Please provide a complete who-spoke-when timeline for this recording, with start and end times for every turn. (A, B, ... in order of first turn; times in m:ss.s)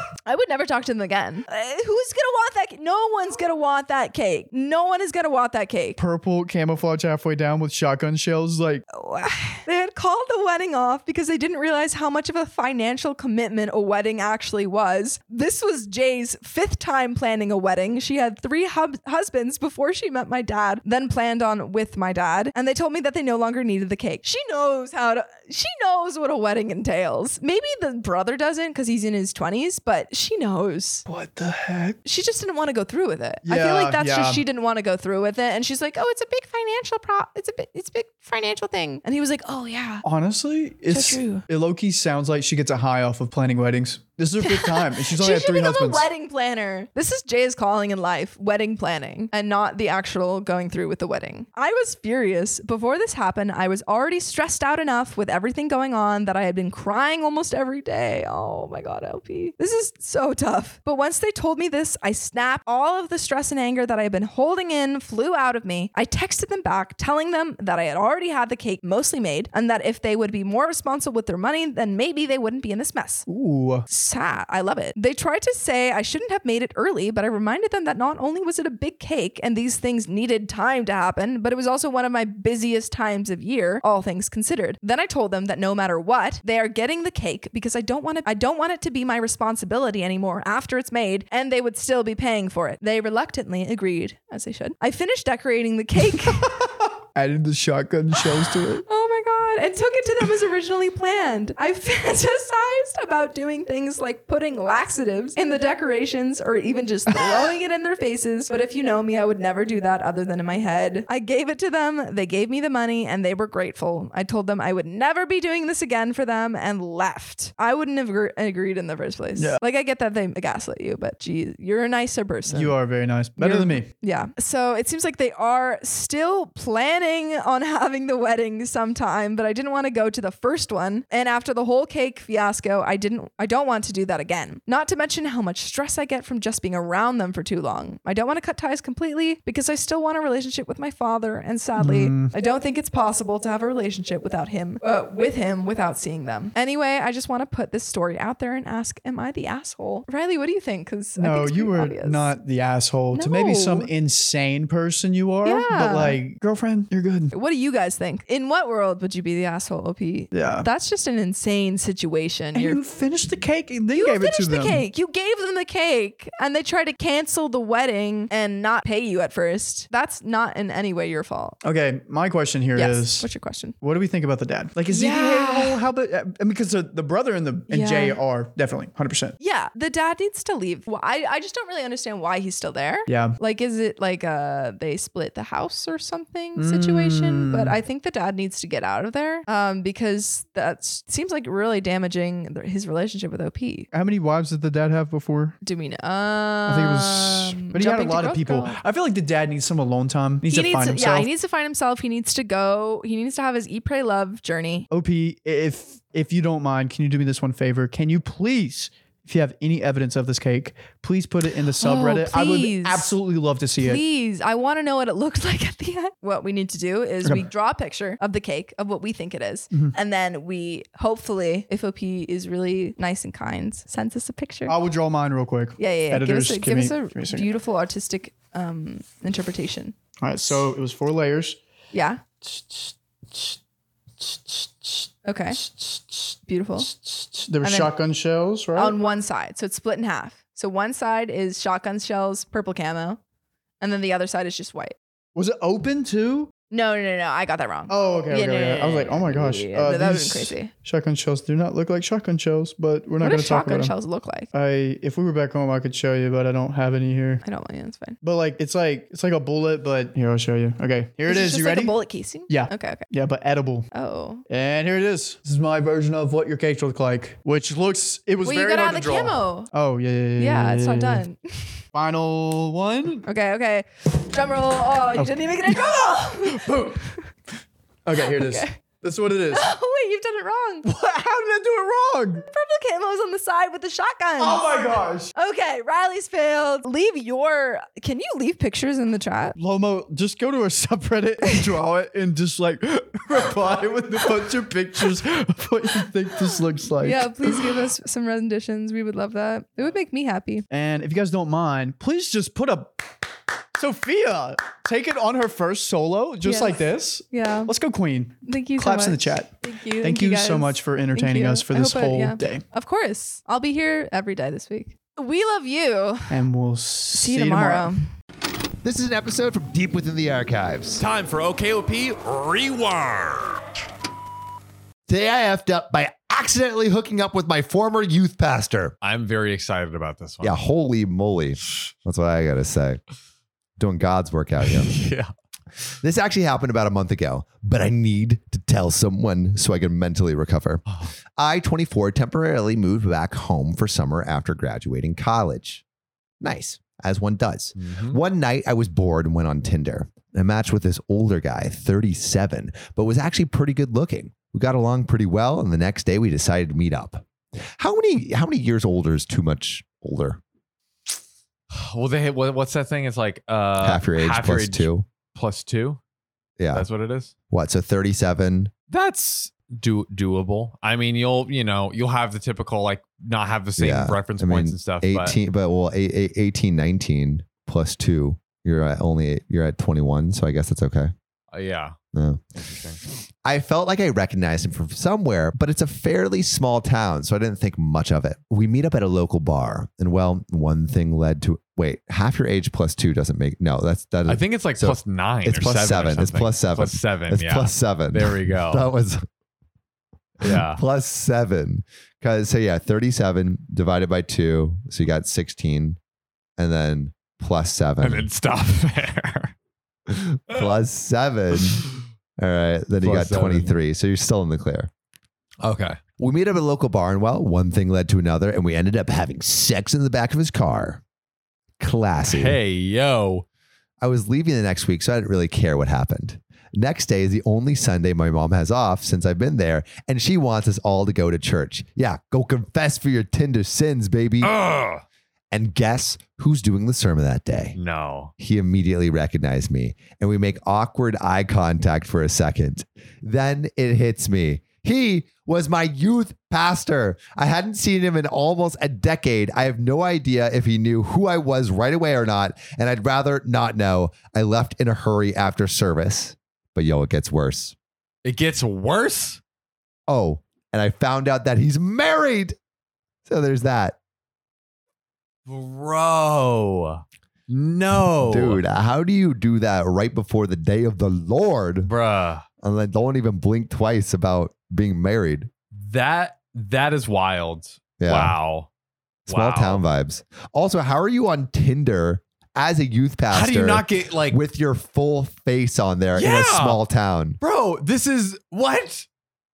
0:00.2-0:06.0 A
0:06.0-0:08.8 B
0:08.9-0:31.0 A
0:31.1-0:32.0 B
0:32.0-0:40.0 A
0:33.4-0:34.4 B
0:40.0-0:46.1 B
0:40.9-0:41.4 A
0:44.4-1:13.3 A
1:13.3-1:13.8 B
1:13.9-1:36.5 A
1:36.4-1:38.8 B
1:38.8-2:02.8 A
1:59.3-1:59.6 B
2:02.5-2:03.9 B
2:03.4-2:32.3 A
2:21.8-2:22.3 B
2:31.2-2:37.3 B
2:33.1-2:33.9 A
2:35.4-2:36.2 A
2:37.3-2:42.8 A
2:40.3-2:40.7 B
2:42.5-2:44.8 B
2:43.9-2:51.6 A
2:51.6-2:53.3 B
2:52.7-2:53.8 A
2:53.8-2:59.4 B
2:54.9-2:55.8 A
2:57.7-2:58.2 A
2:59.4-3:13.9 A
3:03.1-3:03.4 B
3:06.6-3:07.8 B
3:13.9-3:15.6 B
3:15.6-3:18.8 A
3:16.6-3:21.3 B
3:20.5-3:24.9 A
3:24.9-3:34.0 B
3:31.8-3:33.1 A
3:33.8-3:44.7 A
3:44.7-3:47.5 B
3:45.8-3:49.9 A
3:50.2-3:51.6 B
3:51.9-3:52.2 A
3:52.4-3:53.6 B
3:54.2-3:59.0 B
3:55.2-3:55.6 A
3:56.5-3:56.9 A
3:57.6-3:57.9 A
3:58.7-4:03.2 A
4:03.8-4:04.9 A
4:05.4-4:06.5 B
4:06.7-4:10.7 A
4:07.9-4:13.9 B
4:13.2-4:14.5 A
4:14.5-4:17.4 B
4:17.4-4:18.2 A
4:18.2-4:23.9 B
4:21.2-4:23.0 A
4:23.9-4:24.4 A
4:24.5-4:31.2 B
4:28.4-4:29.7 A
4:30.4-4:31.8 A
4:31.9-4:33.3 B
4:33.2-4:37.3 A
4:35.2-4:35.9 B
4:36.5-4:37.0 B
4:38.0-4:39.6 B
4:38.2-4:38.7 A
4:39.5-4:40.9 A
4:40.8-4:42.4 B
4:42.4-4:44.8 A
4:44.4-4:45.3 B
4:45.3-4:49.6 A
4:49.6-4:57.8 B
4:57.0-5:00.6 A
5:00.7-5:03.2 B
5:03.8-5:12.6 B
5:06.4-5:07.7 A
5:08.4-5:16.4 A
5:16.3-5:17.9 B
5:17.1-5:18.0 A
5:18.8-5:21.0 C
5:20.9-5:23.6 D
5:25.1-5:28.9 C
5:29.0-5:30.6 D
5:30.4-5:33.0 C
5:33.8-5:34.9 C
5:34.6-5:35.3 D
5:36.0-5:40.8 C
5:41.4-5:45.8 C
5:46.4-6:00.4 C
5:47.8-5:48.2 D
6:01.7-6:06.0 D
6:03.8-6:05.0 C
6:06.6-6:06.9 C
6:06.7-6:07.3 D
6:07.5-6:08.7 C
6:08.9-6:15.4 D
6:13.8-6:21.1 C
6:21.5-6:21.9 D
6:22.1-6:22.4 C
6:22.6-6:23.0 D
6:23.0-6:39.2 C
6:34.3-6:38.8 D
6:40.4-6:40.8 D
6:40.4-6:46.0 C
6:46.6-6:48.3 C
6:48.0-6:49.5 D
6:50.1-6:51.9 C
6:52.4-6:54.9 C
6:53.0-6:53.7 D
6:55.6-6:56.0 D
6:56.2-7:01.0 C
7:01.8-7:02.6 C
7:02.2-7:03.4 D
7:04.0-7:14.6 C
7:14.4-7:15.0 D
7:15.5-7:17.8 C
7:17.7-7:18.3 D
7:18.4-7:37.7 C
7:38.2-7:39.4 D
7:40.1-7:42.5 C
7:43.2-7:44.0 C
7:45.5-7:48.6 D
7:48.2-7:51.9 C
7:51.8-7:52.4 D
7:52.6-7:55.5 C
7:55.7-7:58.7 D
7:58.0-7:58.4 C
7:59.3-8:07.4 C
7:59.3-7:59.8 D
8:03.3-8:04.4 D
8:06.1-8:06.8 D
8:07.4-8:09.0 D